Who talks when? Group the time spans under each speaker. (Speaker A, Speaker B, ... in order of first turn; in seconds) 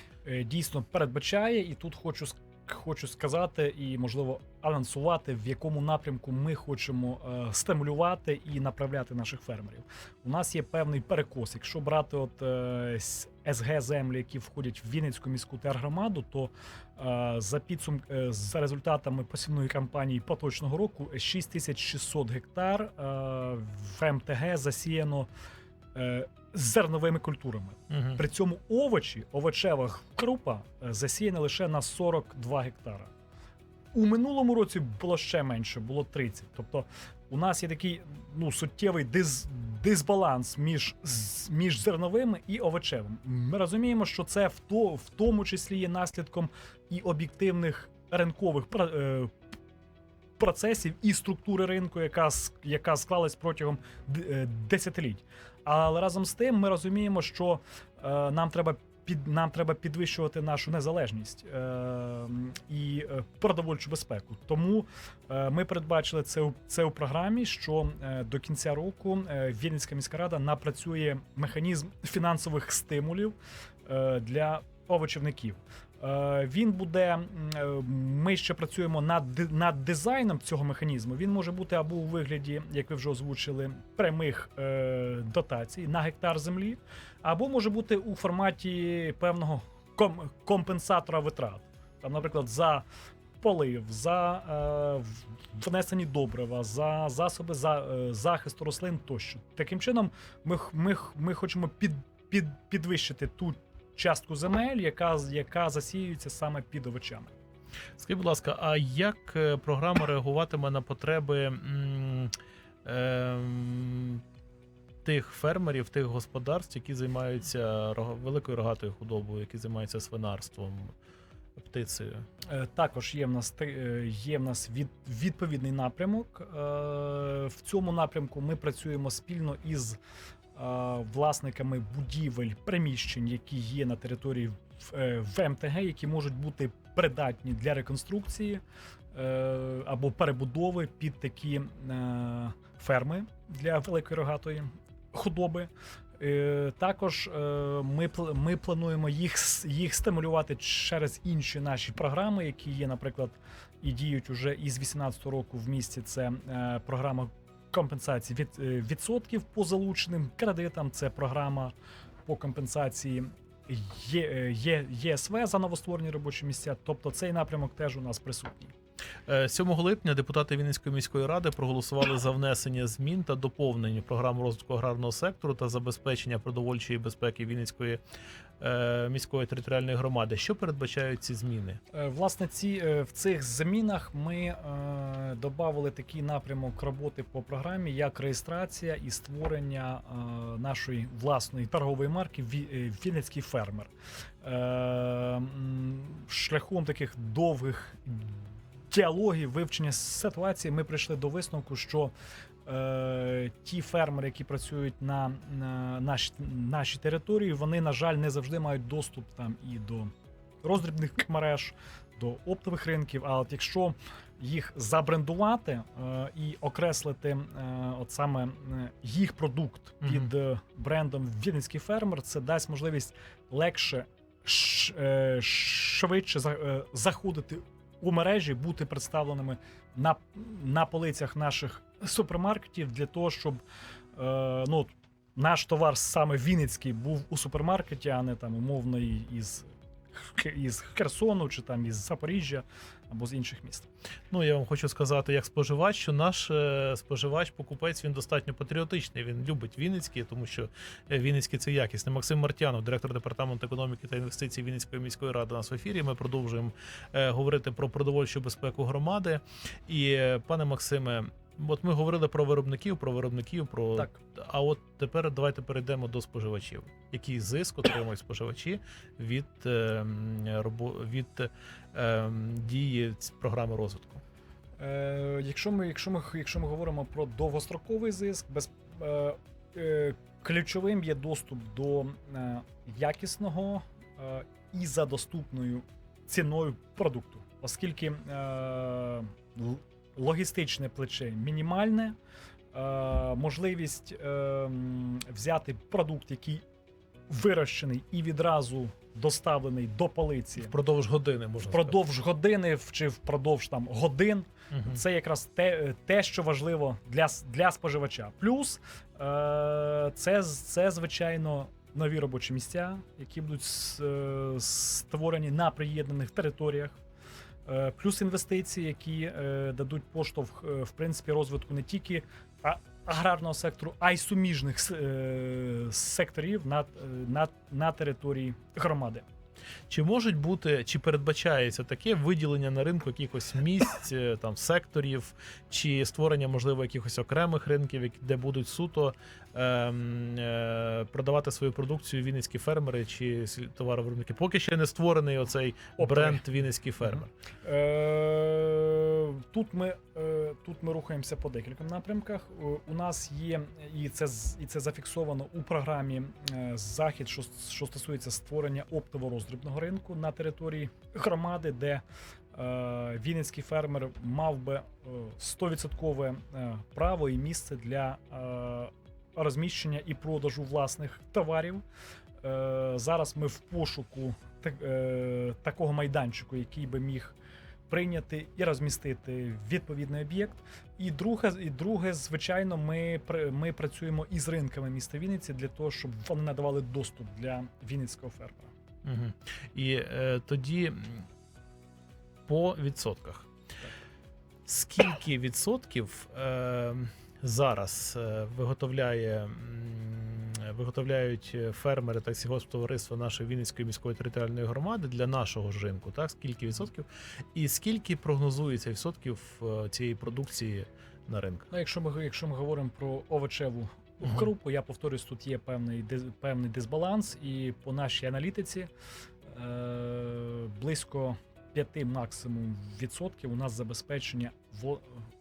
Speaker A: 0.2-25.3, 25.9-33.1, 33.9-49.3, 50.4-73.3, 73.8-92.8, 93.4-107.3, 122.5-130.0, 130.5-138.6, 139.1-161.7, 162.2-168.7, 181.9-193.9, 194.4-198.4, 198.9-202.1, 202.7-210.1, 210.6-233.6, 234.1-243.9, 274.8-292.1, 292.7-296.6, 297.3-300.8, 301.6-317.0, 317.6-329.2, 346.0-346.4, 347.6-371.8, 372.4-377.4, 377.9-388.7, 411.7-418.9, 419.5-425.1
Speaker B: 27.9-28.2, 108.0-112.3, 112.8-114.2, 115.0-120.9, 121.6-122.2, 169.3-178.0, 178.6-181.8, 220.0-220.3, 244.3-274.2, 300.6-302.0, 304.7-305.0, 329.9-347.3, 389.0-391.3, 392.5-393.5, 394.7-411.7